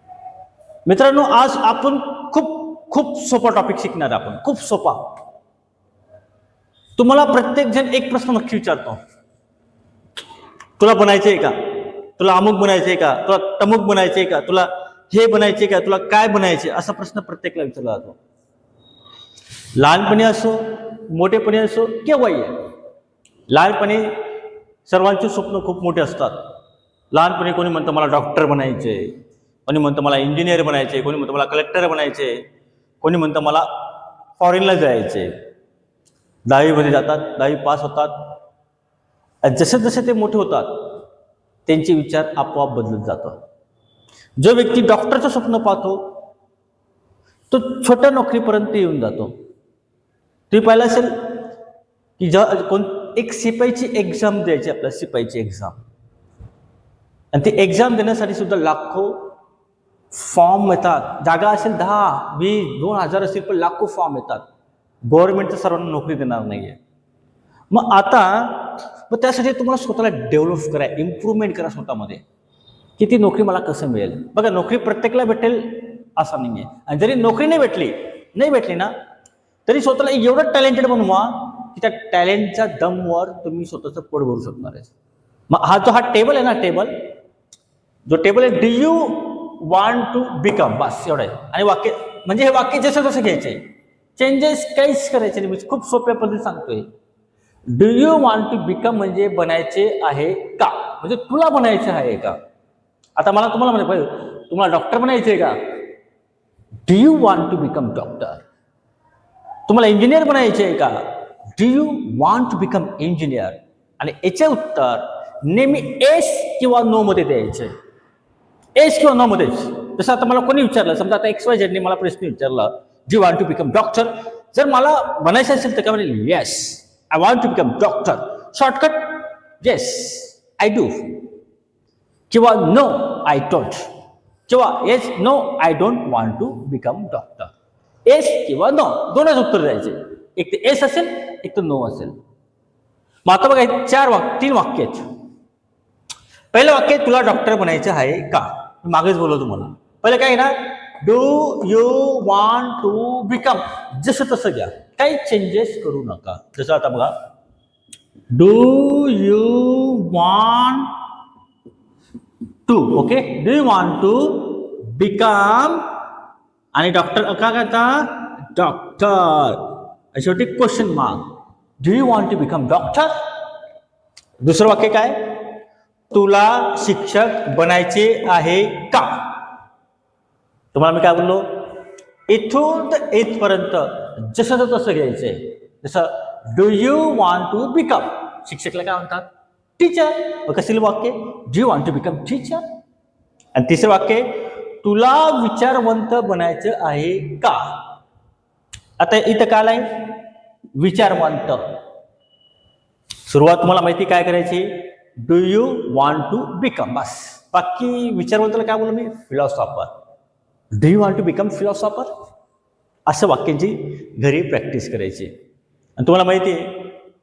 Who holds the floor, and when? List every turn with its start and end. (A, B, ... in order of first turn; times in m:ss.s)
0:00.8-0:05.0 A
0:07.0-0:09.0 A
0:10.8-0:18.2 A
0:19.8-0:22.6 A
0:23.5-0:24.1 A
0:24.9-0:26.4 A
0:27.1-0:32.4 A
0:33.0-0:33.7 A
0:34.4-0:35.3 A
0:36.5-0:38.3 A
0:39.4-0:40.9 A
0:41.6-0:43.4 A
0:44.4-0:46.1 A
0:47.5-0:49.3 A
0:50.5-0:51.5 A
0:52.2-0:55.8 A
0:57.3-0:59.3 A
1:00.1-1:04.4 A
1:05.0-1:06.8 A
1:07.7-1:12.2 A
1:13.0-1:18.9 A
1:19.6-1:24.9 A
1:25.5-1:26.9 A
1:28.1-1:33.6 A
1:34.2-1:36.9 A
1:37.7-1:42.4 A
1:43.2-1:45.6 A
1:46.9-1:48.4 A
1:49.7-1:57.7 A
1:58.8-2:11.3 A
2:12.3-2:13.9 A
2:14.5-2:17.5 A
2:18.0-2:22.2 A
2:23.2-2:25.0 A
2:26.5-2:37.1 A
2:38.3-2:40.9 A
2:42.7-2:45.8 A
2:46.7-2:51.3 A
2:51.8-2:53.1 A
2:54.4-2:55.5 A
2:56.1-2:59.2 A
3:00.7-3:01.5 A
3:02.3-3:12.6 A
3:13.5-3:17.7 A
3:19.0-3:20.2 A
3:20.8-3:21.6 A
3:23.3-3:29.9 A
3:30.7-3:32.1 A
3:33.1-3:35.3 A
3:36.0-3:36.8 A